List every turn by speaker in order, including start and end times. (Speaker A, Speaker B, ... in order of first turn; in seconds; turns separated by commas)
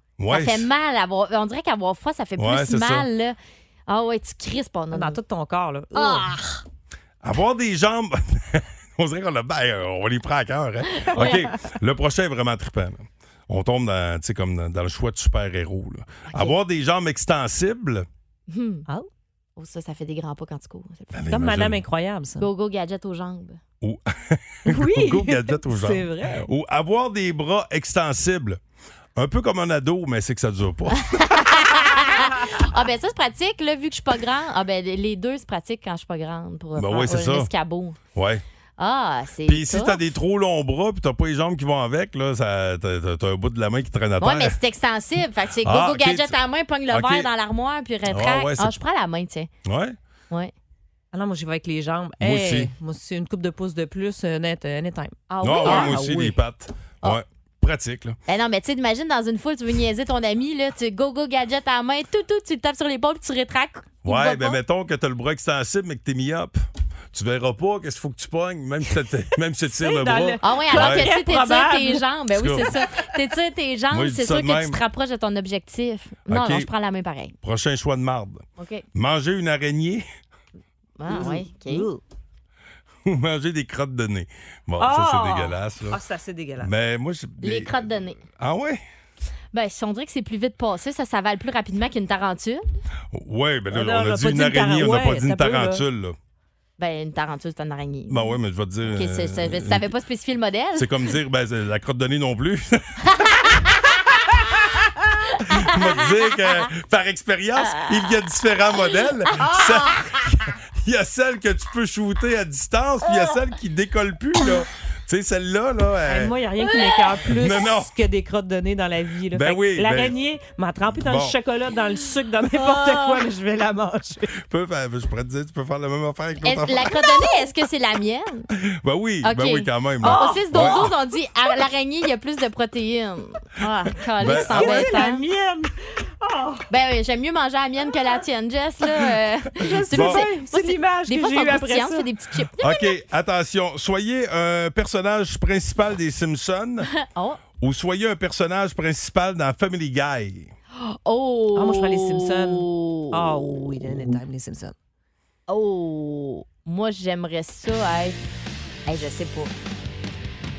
Speaker A: 0.2-0.7, Speaker B: 0.3-3.4, Speaker A: 2.4-3.1, Speaker B: 3.9-5.2, Speaker C: 4.9-6.5, Speaker B: 5.9-6.3, Speaker A: 7.2-18.1, Speaker B: 10.9-11.4, Speaker B: 16.3-16.5, Speaker B: 18.5-18.9, Speaker B: 19.6-21.2, Speaker A: 21.1-21.8, Speaker C: 21.3-22.5, Speaker B: 22.4-23.6, Speaker A: 23.8-28.6, Speaker C: 24.7-26.5, Speaker A: 29.1-31.7, Speaker B: 30.9-38.0, Speaker A: 36.8-37.5, Speaker A: 38.1-38.4, Speaker B: 38.8-40.0, Speaker A: 39.5-44.6, Speaker B: 44.2-49.5, Speaker A: 45.6-46.4, Speaker A: 46.9-47.3, Speaker A: 48.0-48.8, Speaker A: 49.6-50.0, Speaker C: 51.1-56.4, Speaker A: 52.2-52.7, Speaker B: 55.3-56.0, Speaker A: 55.4-58.2, Speaker B: 58.3-64.6, Speaker A: 64.0-66.5, Speaker A: 67.1-71.1, Speaker C: 69.8-72.0, Speaker B: 70.4-77.3, Speaker A: 72.3-72.7, Speaker A: 73.9-74.8, Speaker A: 76.3-76.7, Speaker A: 77.4-78.4, Speaker B: 78.6-78.8, Speaker A: 78.9-80.0, Speaker B: 81.0-81.9, Speaker C: 81.1-82.0, Speaker A: 83.0-86.0, Speaker C: 84.8-86.7, Speaker A: 86.6-88.8, Speaker B: 87.4-88.2, Speaker B: 89.5-92.6, Speaker A: 93.1-96.2, Speaker C: 93.7-95.8, Speaker B: 96.8-100.9, Speaker A: 98.1-99.9, Speaker A: 100.8-103.0, Speaker B: 103.1-103.9, Speaker B: 105.3-106.1, Speaker A: 105.4-116.3, Speaker B: 109.3-110.2, Speaker C: 116.0-124.3, Speaker A: 117.3-117.9, Speaker A: 119.3-120.1, Speaker A: 120.9-121.3, Speaker B: 122.6-123.2, Speaker A: 124.4-127.0, Speaker B: 126.4-128.5, Speaker A: 128.7-130.9, Speaker B: 129.2-135.2, Speaker C: 130.0-130.9, Speaker A: 134.2-135.0, Speaker C: 134.3-136.6, Speaker B: 136.7-142.9, Speaker C: 139.6-142.1, Speaker A: 139.9-140.2, Speaker A: 142.6-146.9, Speaker B: 146.9-147.4, Speaker A: 147.6-150.5, Speaker B: 150.8-153.6, Speaker C: 151.6-154.7, Speaker A: 153.9-154.2, Speaker B: 155.5-158.2, Speaker B: 158.8-159.5